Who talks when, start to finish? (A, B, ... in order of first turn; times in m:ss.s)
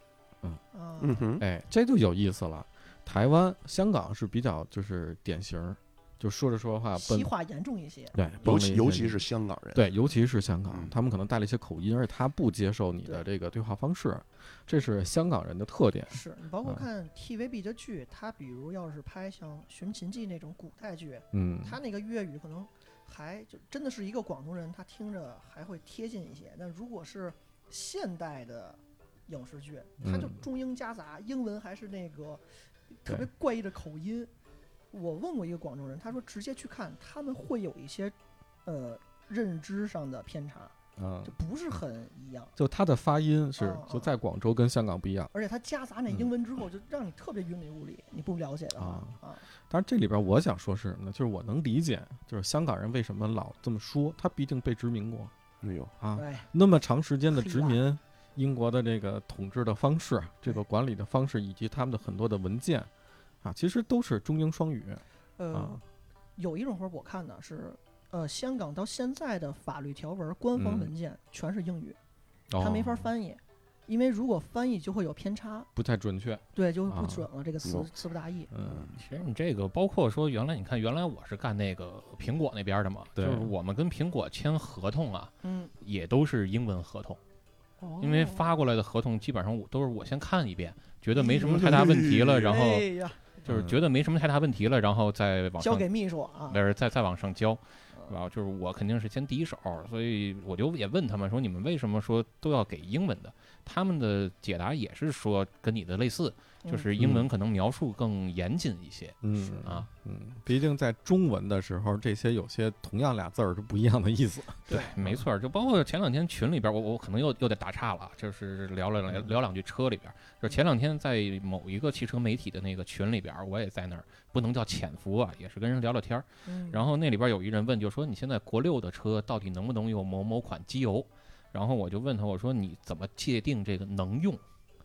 0:00.7-0:01.2 A
0:01.0-0:01.4 B
0:01.4-0:07.3 C
0:06.9-0:08.2 A
0:08.1-0:16.8 C
0:08.4-0:09.9 B
0:10.7-0:10.9 B
0:16.1-0:34.3 A
0:21.3-0:21.8 C
0:30.0-0:30.4 C
0:34.9-0:40.7 A
0:41.0-0:41.3 C
0:41.2-0:42.5 A
0:42.6-0:45.3 C
0:43.6-0:44.1 A
0:45.3-0:49.4 A
0:48.8-0:49.1 C
0:49.7-0:55.3 C
0:55.6-0:55.9 B
0:56.0-1:02.9 C
0:56.1-0:56.5 A
0:57.3-0:57.8 A
1:03.4-1:05.0 C
1:05.4-1:05.8 A
1:05.5-1:05.8 C
1:06.4-1:12.0 A
1:10.6-1:10.9 C
1:12.5-1:13.1 C
1:12.6-1:15.7 A
1:15.8-1:17.3 C
1:16.5-1:18.5 A
1:17.6-1:17.9 B
1:18.5-1:18.9 C
1:18.6-1:19.0 B
1:19.0-1:27.2 D
1:23.2-1:23.5 C
1:25.4-1:25.7 A
1:27.8-1:28.5 A
1:28.0-1:32.9 D
1:31.3-1:32.6 B
1:32.5-1:33.4 A
1:33.4-1:35.9 D
1:33.5-1:33.8 C
1:35.6-1:36.6 A
1:36.5-1:49.9 D
1:46.6-1:46.9 A
1:47.0-1:47.3 C
1:49.2-1:55.2 C
1:54.7-1:54.9 A
1:54.7-2:14.4 D
1:59.1-1:59.3 C
2:06.4-2:06.8 A